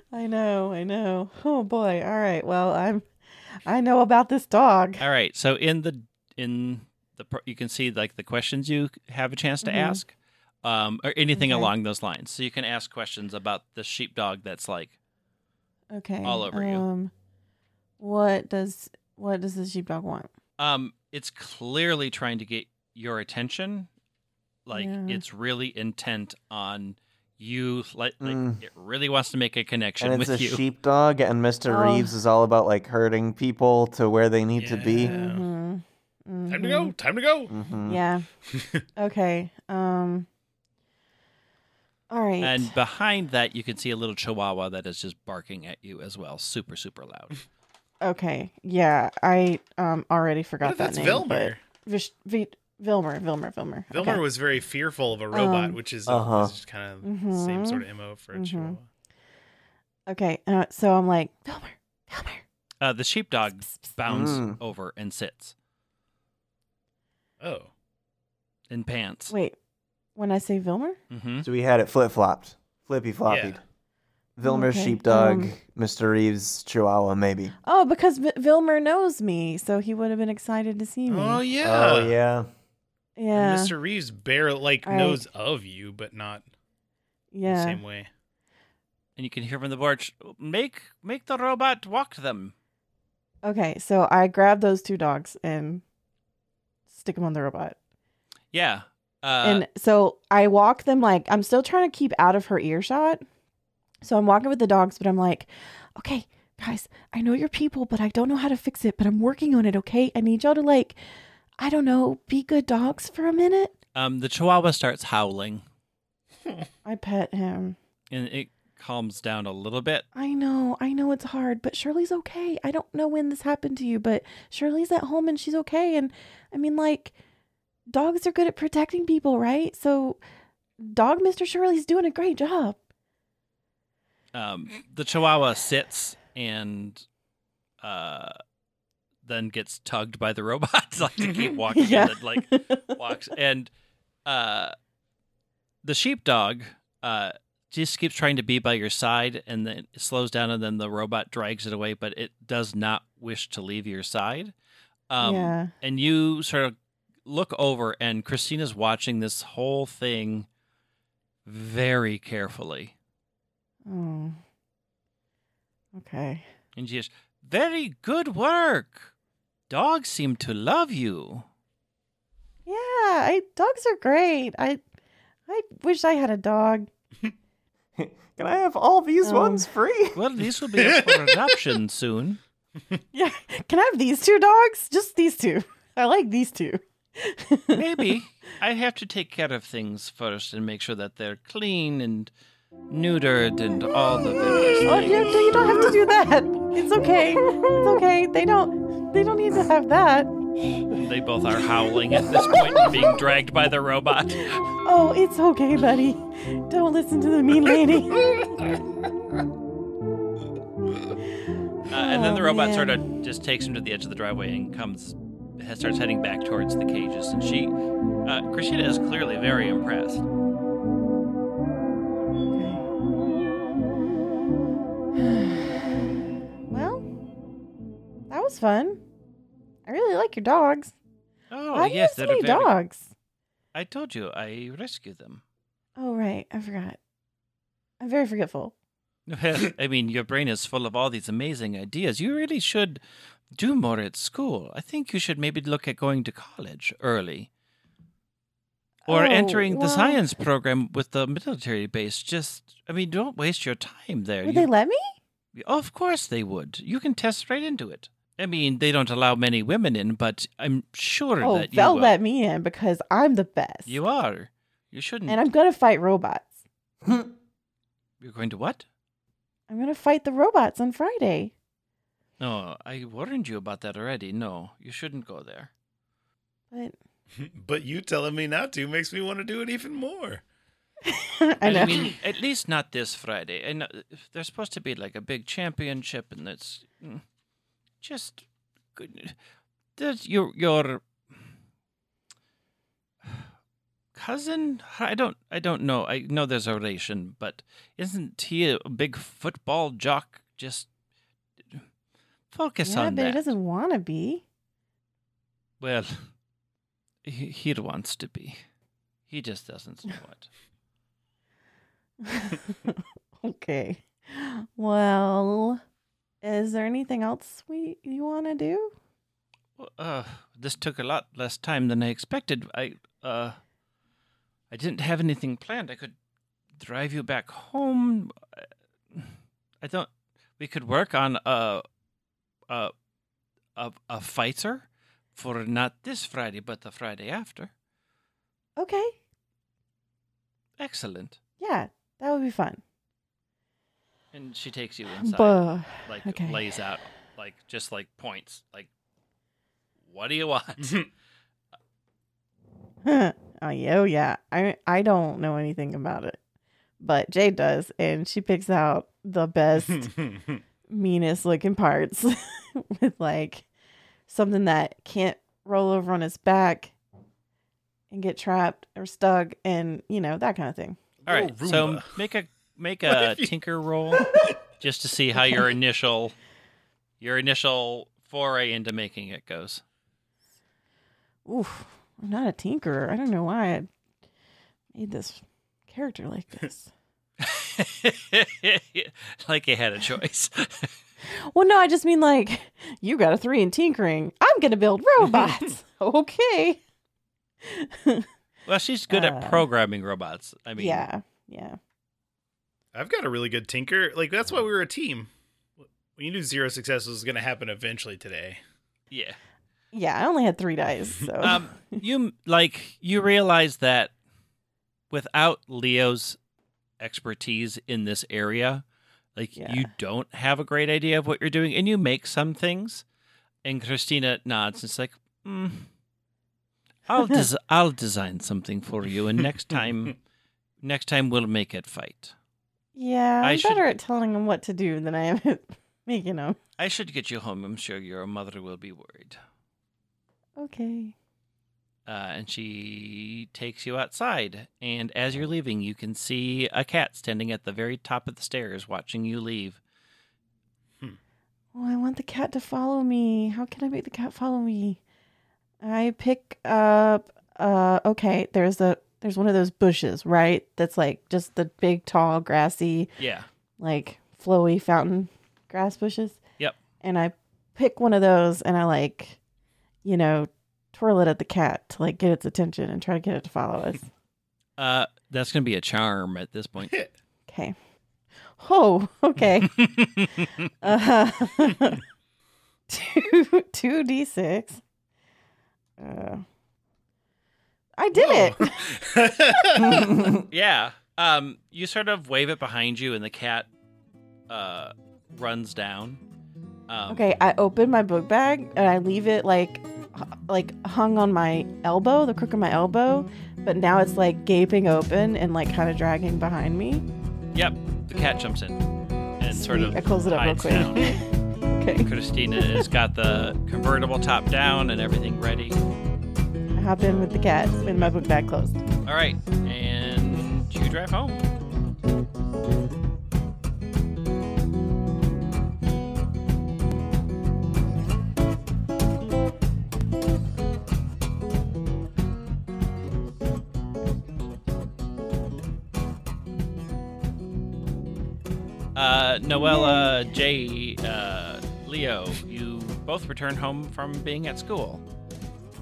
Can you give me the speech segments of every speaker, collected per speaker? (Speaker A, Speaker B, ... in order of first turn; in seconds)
Speaker A: 0.1-3.1, 3.6-5.0, 9.6-10.0, 11.3-11.7, 15.9-17.1, 18.0-20.3, 24.7-25.2, 31.7-32.1, 35.0-36.9, 37.9-38.3, 39.0-40.3, 42.1-42.7, 48.0-54.2, 55.3-55.8, 57.0-58.8, 60.1-62.4, 69.3-69.6, 70.2-71.0, 74.5-75.5, 77.6-81.4, 83.2-83.7, 84.8-85.2, 87.3-87.8, 93.4-95.8, 96.9-97.8, 99.4-103.2, 104.0-111.0, 111.6-113.7, 116.8-117.8, 120.1-127.1, 127.9-130.2, 130.8-132.8, 141.7-142.9, 155.2-155.7, 163.9-164.4, 166.0-166.5, 172.7-174.8, 175.5-176.9, 179.2-179.7, 183.1-187.8, 194.8-200.3, 204.8-208.3, 211.9-213.0, 222.5-222.8, 225.2-225.8, 226.7-227.1, 228.3-229.0, 229.9-230.9, 231.7-233.1, 236.0-237.0, 238.0-238.7, 249.1-250.2, 254.4-255.1, 261.4-264.0, 265.3-266.6, 269.7-271.5, 281.0-282.1, 302.8-304.4, 312.2-315.8, 316.4-318.9, 338.8-339.1, 341.6-342.8, 345.2-346.6, 353.0-356.4, 357.0-360.1, 360.9-363.6, 364.3-366.9, 368.1-371.0, 375.4-375.6, 381.4-383.9, 384.9-386.9, 391.5-396.8, 397.6-398.3, 399.1-399.7, 400.8-401.8, 409.9-412.0, 419.6-419.9, 432.9-436.6, 440.6-441.1, 451.8-455.0, 455.8-463.1, 463.8-466.4, 467.0-469.4, 470.0-474.1, 477.5-477.8, 478.6-479.8, 480.8-482.0, 482.9-484.8, 486.0-486.4, 488.0-489.0, 489.7-490.1, 497.1-507.0, 509.5-511.2, 511.8-512.9, 516.8-518.8, 539.5-540.2
Speaker B: 5.0-10.1, 10.6-14.9, 16.2-16.9, 20.6-23.9, 24.6-30.6, 42.4-47.4, 62.8-65.5, 68.7-69.3, 71.1-71.5, 89.2-92.5, 98.5-99.7, 114.0-115.6, 118.1-120.1, 134.3-137.0, 137.8-138.4, 139.2-143.7, 144.2-144.8, 145.8-154.5, 155.1-160.5, 161.4-162.9, 166.8-169.1, 169.7-171.4, 180.1-182.4, 187.8-192.3, 192.9-195.5, 200.9-204.6, 211.9-217.7, 218.2-220.2, 231.5-232.7, 233.7-235.4, 239.3-243.0, 243.5-247.5, 249.1-254.7, 255.5-262.1, 263.9-265.4, 268.2-268.9, 272.4-275.7, 281.6-287.2, 288.0-289.4, 290.0-291.0, 294.1-300.9, 302.5-303.5, 305.8-306.2, 307.2-308.6, 309.3-310.5, 319.8-323.6, 324.7-326.1, 326.8-329.3, 329.8-331.8, 333.8-337.7, 340.8-341.4, 344.3-348.9, 350.1-351.0, 371.3-374.3, 374.8-376.4, 377.2-379.8, 387.4-390.9, 398.7-401.0, 409.1-409.4, 411.4-414.1, 415.1-416.4, 417.0-418.8, 419.4-423.0, 423.6-425.9, 427.1-430.2, 430.8-432.3, 433.4-433.9, 436.8-439.4, 442.1-449.8, 463.2-463.5, 474.8-476.9, 479.8-480.5, 490.4-493.7, 494.5-496.2, 496.9-497.2, 507.5-508.8, 509.4-511.2, 512.0-515.8, 519.0-521.5, 539.0-545.0
Speaker C: 28.2-28.6, 30.0-35.1, 37.5-38.0, 56.1-56.5, 64.1-64.6, 71.4-73.6, 74.4-77.5, 81.6-82.5, 178.0-180.2, 489.9-490.4
Speaker D: 34.6-35.5, 36.5-37.5, 38.5-38.8, 50.6-51.6, 53.9-58.9, 67.4-67.7, 73.2-73.6, 81.1-82.2, 83.3-86.5, 87.5-88.1, 141.2-141.5, 180.8-181.6, 208.2-208.7, 277.4-280.4, 350.8-351.1, 359.8-360.6, 371.2-372.1, 373.1-373.5, 374.1-374.5, 402.9-405.3, 405.8-408.6, 488.1-490.1